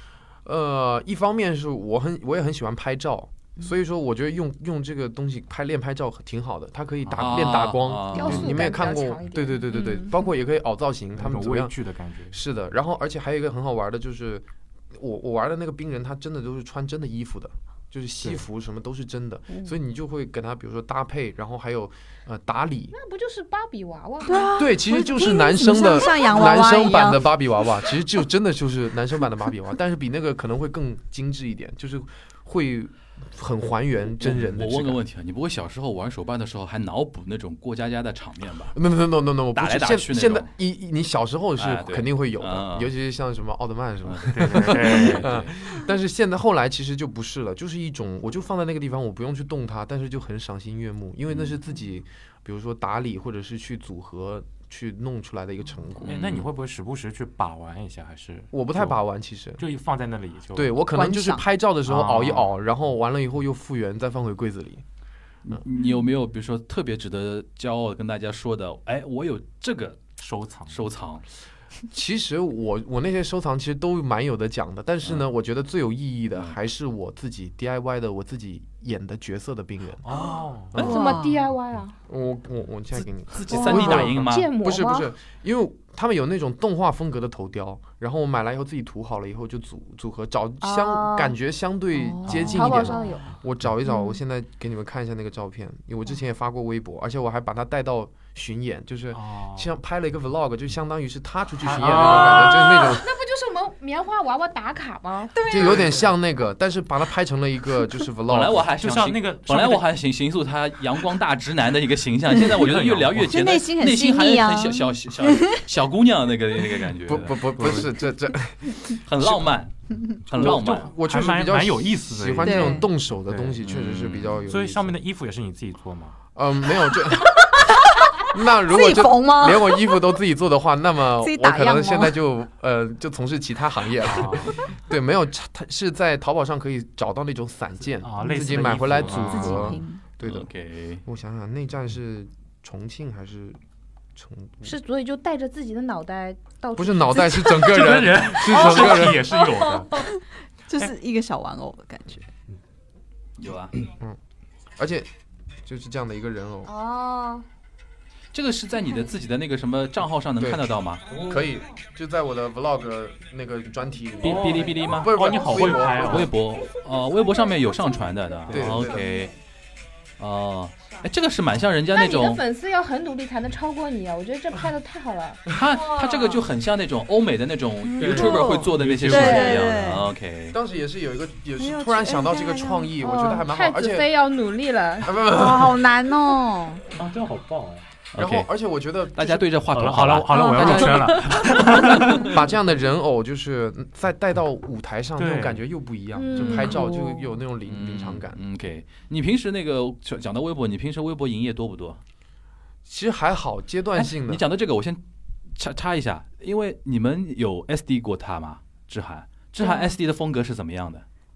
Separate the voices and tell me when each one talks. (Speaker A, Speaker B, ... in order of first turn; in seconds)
Speaker A: 0.4-11.7, 12.3-22.9, 24.6-35.0, 38.7-56.2, 58.5-59.6, 60.5-64.8, 71.9-80.0, 82.1-103.1, 105.5-108.6, 117.1-119.5, 120.3-125.0, 126.3-127.4, 128.3-140.5, 141.0-143.6, 144.2-144.8, 146.7-149.3, 154.8-155.1, 155.7-156.7, 160.4-166.3, 168.5-169.0, 179.0-179.5, 180.5-184.1, 185.0-185.9, 188.1-189.5, 192.2-198.4, 202.8-204.4
Speaker B: 7.0-7.3, 11.1-12.4, 44.3-45.5, 56.0-59.0, 59.6-60.8, 61.9-62.5, 70.2-70.9, 80.0-80.9, 92.2-93.4, 99.1-99.7, 101.6-102.8, 105.5-106.1, 108.8-109.8, 112.4-113.4, 117.5-118.0, 120.5-123.6, 124.5-126.2, 134.0-134.6, 138.0-139.8, 147.5-150.0, 161.1-161.5, 164.2-166.3, 168.5-168.9, 178.0-180.0, 186.9-187.8, 189.7-192.4, 195.2-195.6
Speaker C: 7.2-8.5, 34.2-38.8, 39.5-40.5, 41.6-42.9, 44.0-45.3, 51.3-51.5, 56.0-56.5, 65.4-70.1, 70.7-71.2, 80.7-81.1, 83.0-84.5, 108.3-117.5, 119.0-120.9, 123.6-124.4, 140.2-141.0, 153.4-153.7, 158.3-161.0, 164.2-165.3, 166.0-169.3, 170.2-172.4, 175.5-180.6, 188.1-188.5, 189.1-192.4, 197.7-202.0, 204.0-205.0, 205.6-211.0
Speaker D: 8.1-9.8, 22.9-24.5, 80.8-82.0, 83.7-85.1, 90.6-91.3, 92.5-93.3, 101.9-105.9, 144.6-147.6, 148.6-150.0, 156.6-157.4, 171.9-175.5, 183.0-185.2, 196.1-196.9
Speaker E: 9.7-10.1, 24.2-27.4, 60.9-61.5, 80.8-81.4, 83.5-84.1, 92.0-93.0, 93.9-94.2, 113.2-115.6, 122.4-122.9, 128.1-130.0, 131.2-132.2, 139.1-140.0, 150.7-152.3, 178.0-178.5, 179.1-180.1, 181.6-182.9, 185.2-186.8, 190.3-191.3, 196.4-197.4, 209.6-210.0